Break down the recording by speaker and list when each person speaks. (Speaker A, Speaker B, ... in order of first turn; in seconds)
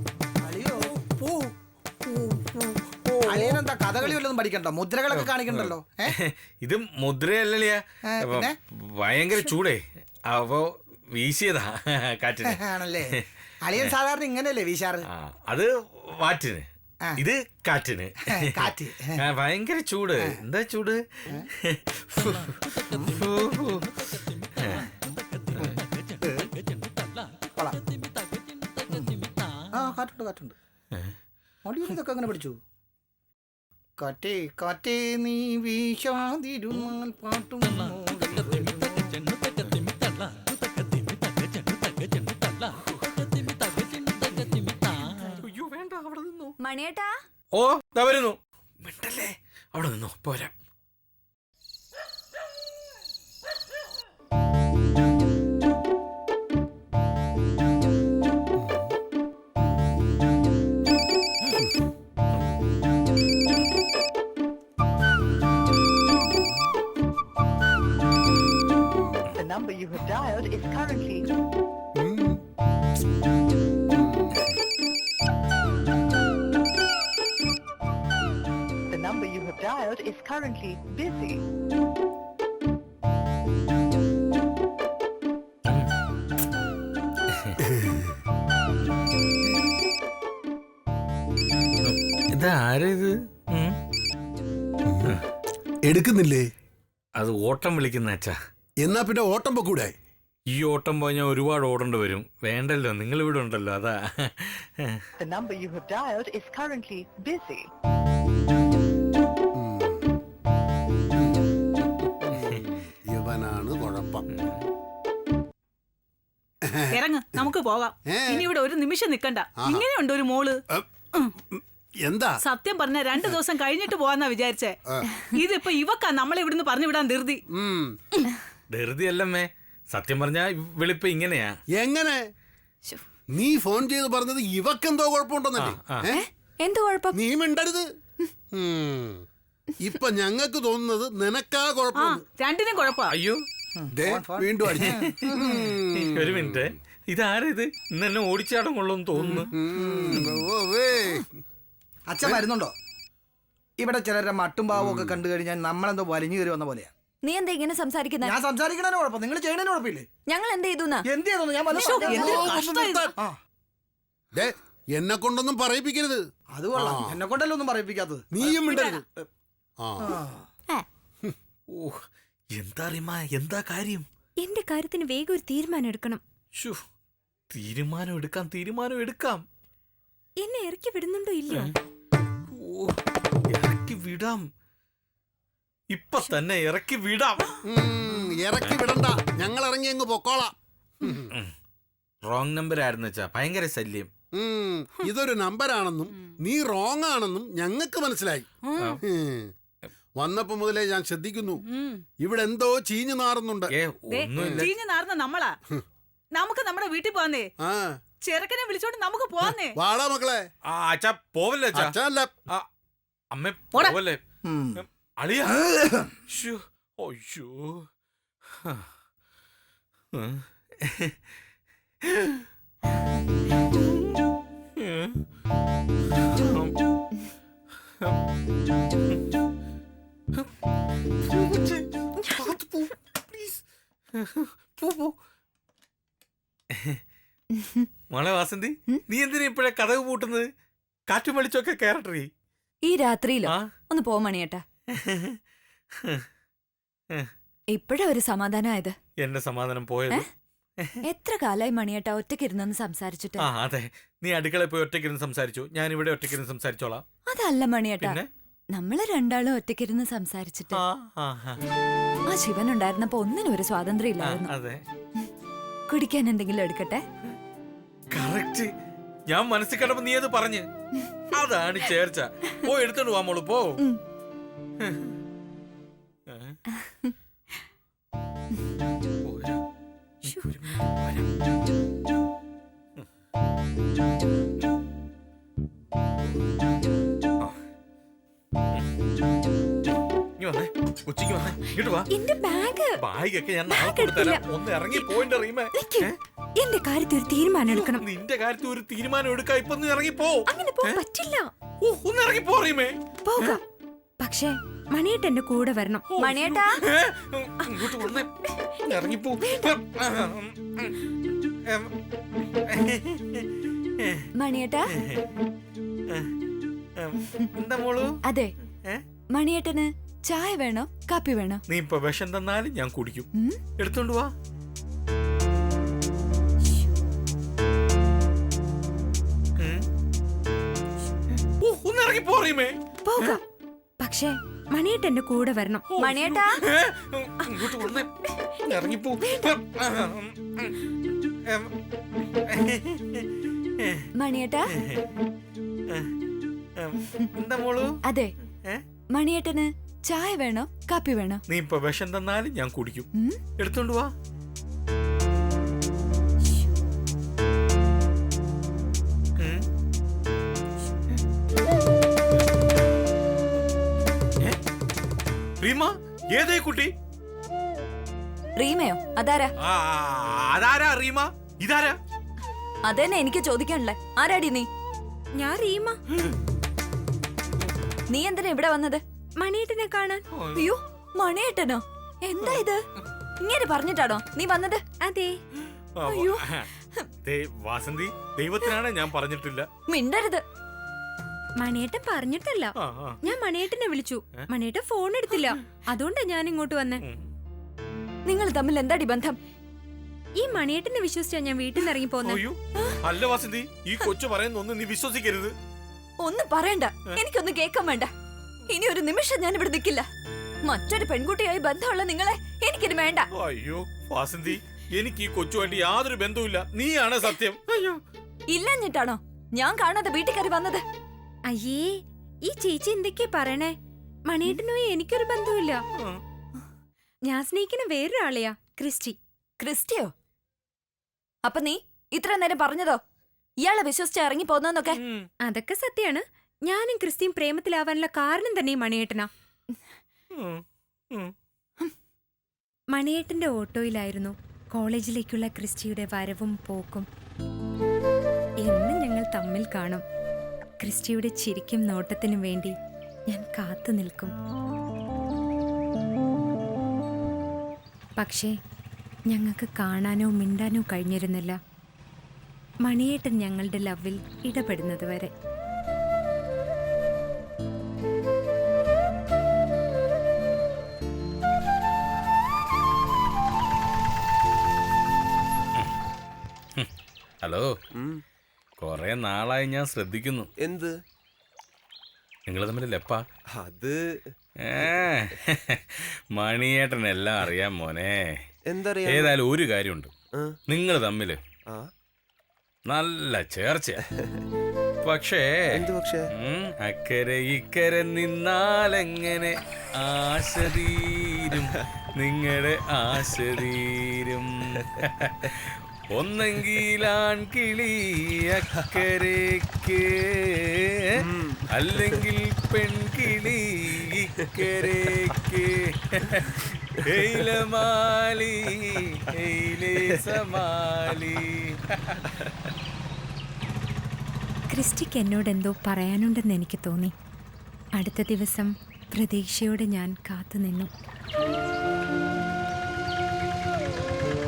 Speaker A: 0.4-0.9, 3.2-6.2, 8.1-8.6, 12.4-13.2, 13.7-15.1, 18.3-19.2, 26.2-26.5, 27.6-27.8, 28.9-30.5, 31.6-32.6, 34.0-39.0, 143.8-145.6, 149.7-150.3, 152.1-152.7, 153.8-156.9, 158.2-160.1, 161.1-162.3, 166.6-169.3, 170.0-170.4, 214.5-214.7, 215.5-216.1
Speaker B: 0.9-1.5, 2.1-4.2, 5.1-12.6, 15.1-16.7, 17.2-21.0, 21.6-24.9, 42.9-43.3, 45.1-46.5, 47.5-50.5, 91.8-93.8, 97.2-98.3, 100.5-105.0, 114.3-114.7, 128.7-131.6, 135.6-136.1, 143.1-143.4, 144.8-145.2, 145.9-149.5, 171.7-172.0, 172.5-174.1, 177.5-179.4, 182.5-183.0, 183.5-184.5, 185.9-187.6, 192.2-194.1, 203.7-204.7, 210.7-212.0, 213.3-214.2, 214.8-215.7, 216.3-217.9, 220.1-221.2, 222.0-222.5, 224.8-225.2, 226.2-226.8, 231.3-233.6, 234.1-235.2, 236.7-237.0, 238.1-240.5, 241.1-242.3, 244.9-245.4, 249.2-250.2, 253.4-257.0, 258.0-258.3, 260.7-261.6, 264.2-264.8, 268.1-268.7, 269.3-270.7, 271.3-273.8, 274.8-275.1, 276.3-276.6, 279.2-279.6, 280.2-281.3, 290.4-292.1, 293.0-296.1, 297.7-301.0, 301.8-303.6, 306.1-311.0, 311.7-311.9, 312.7-313.5, 314.0-314.3, 314.9-315.3, 317.0-318.2, 321.7-324.3, 329.6-329.9, 331.6-333.4, 335.9-340.8, 341.5-341.7, 342.5-344.1, 344.7-345.1, 346.8-348.0, 351.5-354.1, 359.4-359.7, 365.6-366.9, 369.6-372.0, 380.4-380.7, 382.4-382.6, 386.0-386.7, 387.2-389.7, 392.8-393.2, 402.2-405.6, 413.3-418.0, 434.9-435.3, 440.4-441.3, 477.4-477.7, 478.8-480.5, 482.5-483.2, 484.7-488.3, 489.1-490.1, 490.7-491.4, 492.9-494.0, 495.0-495.6, 496.4-511.1, 511.7-522.2
Speaker C: 46.6-47.1, 136.2-137.1, 157.2-158.3, 160.3-161.0, 237.6-237.8, 242.8-244.6, 247.7-248.9, 251.1-253.4, 257.3-258.2, 258.7-260.8, 262.3-264.5, 265.9-267.0, 295.8-296.1, 306.2-306.7, 314.4-314.8, 319.3-321.6, 336.0-336.5, 344.2-344.6, 349.1-351.4, 368.6-369.5, 372.9-374.7, 378.1-379.0, 380.6-382.8, 383.4-384.8, 386.1-386.4, 389.9-390.4, 398.3-399.4, 406.2-408.1, 408.7-410.1, 410.6-413.2, 418.5-420.8, 429.6-430.1, 431.4-433.0, 433.6-434.9
Speaker D: 68.9-69.2, 72.0-72.4, 73.9-74.4, 87.7-88.0, 94.9-95.2, 95.8-96.5, 98.8-99.9, 109.5-110.0, 111.2-114.3, 116.7-117.5, 118.1-118.5, 119.6-119.9, 121.5-122.4, 127.5-127.9, 131.8-132.2, 133.3-136.2, 137.1-137.9, 138.5-139.2, 139.8-142.2, 143.9-146.6, 149.5-151.2, 154.7-155.2, 162.2-163.1, 164.3-166.2, 166.8-167.2, 168.3-168.9, 169.8-170.2, 187.7-191.3, 194.3-198.5, 199.0-199.5, 200.2-201.6, 202.2-203.7, 204.4-204.7, 207.6-208.0, 209.7-210.4, 211.7-212.3
Speaker E: 69.4-71.3, 78.9-81.4, 105.2-107.7
Speaker F: 116.9-120.6, 122.4-124.8, 125.3-127.4, 142.0-143.1, 161.7-163.1, 168.7-169.0, 201.7-202.0, 204.1-205.6, 206.3-207.5, 208.2-209.8
Speaker G: 174.4-176.2, 180.4-181.7, 292.1-293.0, 293.7-295.1, 296.6-298.0, 300.5-301.5, 303.2-303.6, 304.2-306.1, 307.6-308.1, 309.4-309.7, 333.0-333.4, 334.0-335.9, 337.5-337.8, 375.4-376.0, 379.4-380.2, 385.0-385.4, 391.6-397.0, 400.4-402.4, 421.5-421.9, 422.4-423.7, 424.3-425.8, 427.3-429.2, 435.4-439.3, 442.9-447.1, 448.6-450.0, 450.8-452.7, 453.3-454.3, 458.2-458.5, 459.3-461.6, 462.9-465.3, 524.7-527.1, 528.0-530.9
Speaker H: 480.6-480.9, 484.8-485.2, 488.7-489.3, 495.7-496.0, 511.2-511.5